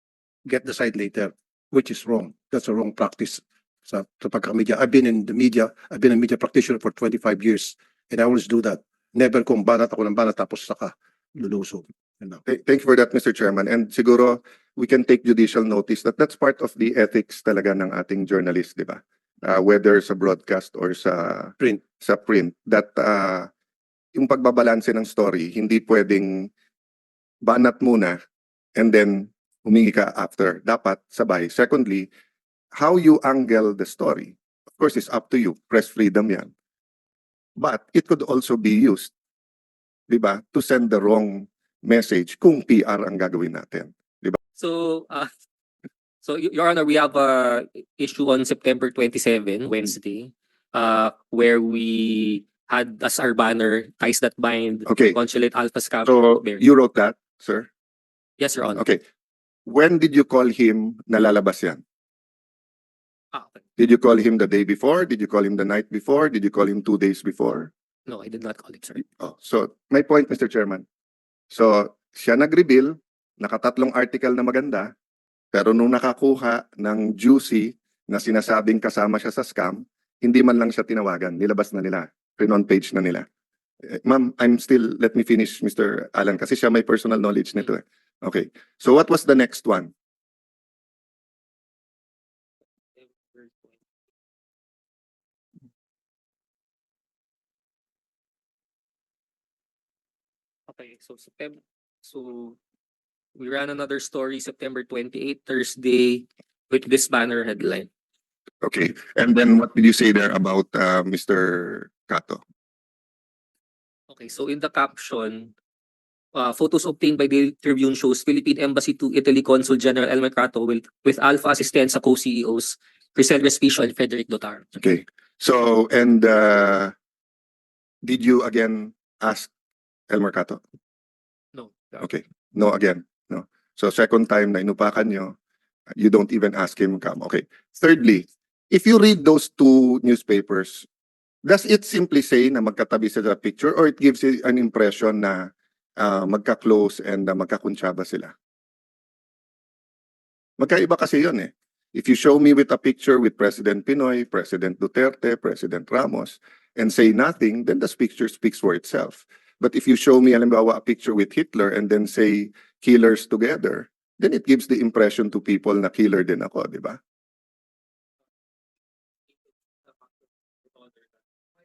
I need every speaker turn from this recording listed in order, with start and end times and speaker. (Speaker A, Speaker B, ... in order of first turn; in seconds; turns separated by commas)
Speaker A: 0.5-12.4, Speaker B: 12.5-23.5, Speaker B: 24.1-26.5, Speaker B: 27.4-28.2, Speaker B: 28.8-32.1, Speaker B: 32.7-36.5, Speaker B: 37.6-39.1, Speaker B: 40.1-44.4, Speaker C: 44.6-45.3, Speaker C: 46.2-56.6, Speaker B: 54.9-55.2, Speaker B: 56.0-57.7, Speaker C: 58.4-58.8, Speaker B: 58.7-59.0, Speaker B: 59.7-61.8, Speaker C: 63.3-63.6, Speaker B: 63.8-67.7, Speaker C: 68.1-69.0, Speaker B: 69.0-70.8, Speaker B: 71.5-74.9, Speaker B: 75.5-83.3, Speaker B: 83.8-89.9, Speaker C: 93.0-93.7, Speaker C: 100.7-102.6, Speaker C: 103.4-107.9, Speaker B: 108.6-112.4, Speaker C: 114.1-115.5, Speaker C: 116.3-124.7, Speaker B: 124.8-126.9, Speaker B: 128.0-129.5, Speaker B: 130.1-130.6, Speaker C: 131.6-132.0, Speaker B: 132.0-135.3, Speaker B: 135.9-140.9, Speaker B: 141.4-148.3, Speaker B: 150.6-167.0